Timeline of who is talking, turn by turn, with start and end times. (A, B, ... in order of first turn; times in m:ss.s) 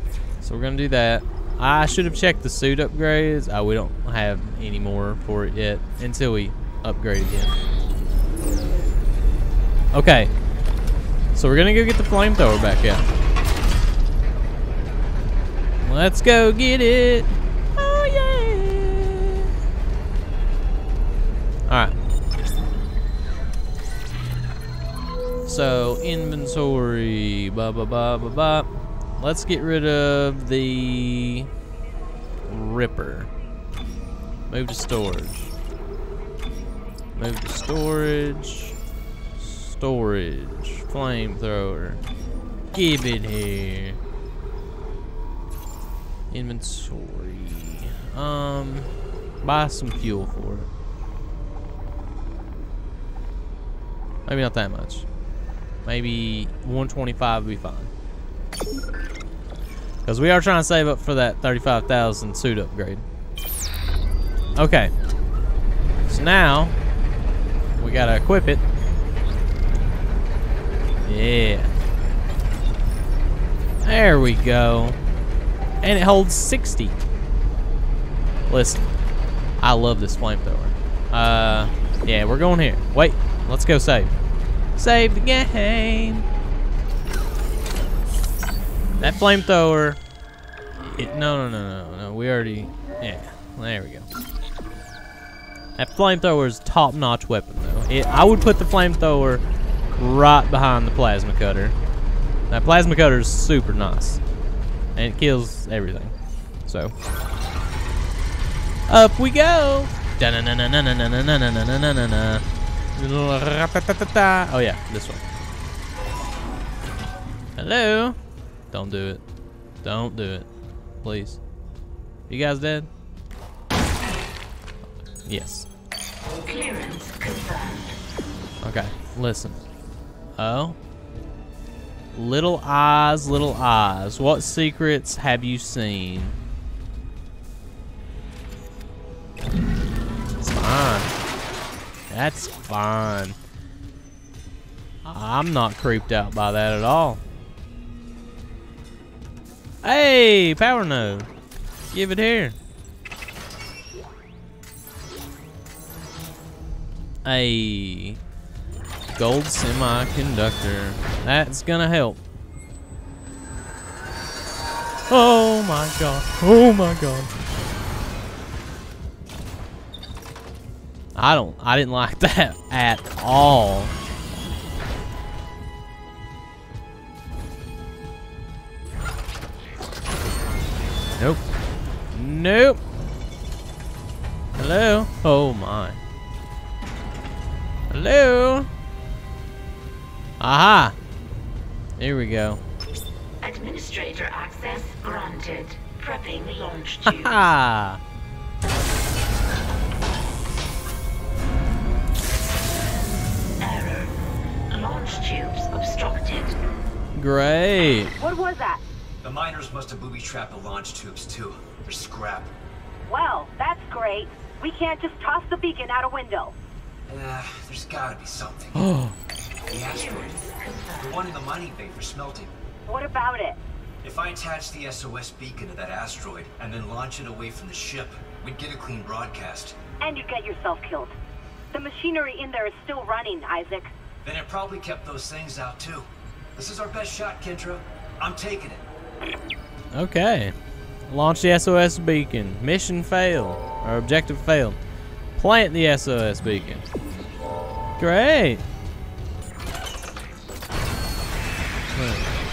0:00.4-0:07.5 A
0:09.9-0:10.3 A
0:11.3-0:13.1 A
0:15.8-0:19.5 A
0:21.7-0:21.9 A
0:25.4-0:31.5 A
0:32.5-0:33.3 A
0:34.5-0:35.5 A
0:37.1-0:38.8 A
0:39.4-0:42.0 A
0:42.7-0:44.0 A
0:46.3-0:50.7 A
0:54.2-0:55.0 A
0:55.8-0:57.9 A
1:00.0-1:03.0 A
1:04.6-1:04.9 A
1:06.1-1:06.8 A
1:07.8-1:08.6 A
1:11.0-1:11.7 A
1:13.8-1:15.0 A
1:15.8-1:17.0 A
1:18.5-1:18.8 A
1:19.6-1:24.1 A
1:24.8-1:26.2 A
1:29.0-1:30.0 A
1:30.8-1:34.1 A
1:35.8-1:41.8 A
1:42.5-1:44.2 A
1:45.0-1:46.1 A
1:46.6-1:46.9 A
1:48.9-1:52.4 A
1:53.0-1:55.2 A
1:57.6-1:58.2 A
1:58.7-1:59.2 A
1:59.8-2:00.5 A
2:01.0-2:01.4 A
2:02.3-2:02.9 A
2:05.2-2:05.7 A
2:06.4-2:08.0 B
2:08.6-2:09.6 A
2:10.4-2:10.8 A
2:12.1-2:16.4 A
2:20.4-2:21.1 A
2:22.1-2:23.4 A
2:25.0-2:27.2 A
2:29.8-2:31.3 A
2:31.9-2:32.6 A
2:37.2-2:38.2 A
2:39.1-2:42.2 A
2:45.1-2:47.3 A
2:51.1-2:53.9 A
3:02.1-3:02.8 A
3:04.6-3:06.0 A
3:07.9-3:08.7 A
3:10.4-3:10.9 A
3:12.0-3:12.6 A
3:13.4-3:17.5 B
3:17.0-3:18.0 A
3:23.6-3:24.1 B
3:24.7-3:26.5 B
3:27.2-3:28.1 A
3:28.2-3:28.8 C
3:29.2-3:32.5 D
3:33.1-3:36.5 C
3:37.1-3:38.9 D
3:38.8-3:39.1 A
3:39.7-3:40.4 D
3:39.9-3:41.2 B
3:41.0-3:42.5 D
3:42.8-3:43.6 C
3:44.0-3:49.8 D
3:50.0-3:51.1 C
3:51.7-3:53.9 C
3:54.2-3:58.8 D
3:59.9-4:00.5 A
4:01.1-4:04.8 A
4:05.4-4:06.8 A
4:08.0-4:08.6 A
4:11.9-4:12.2 A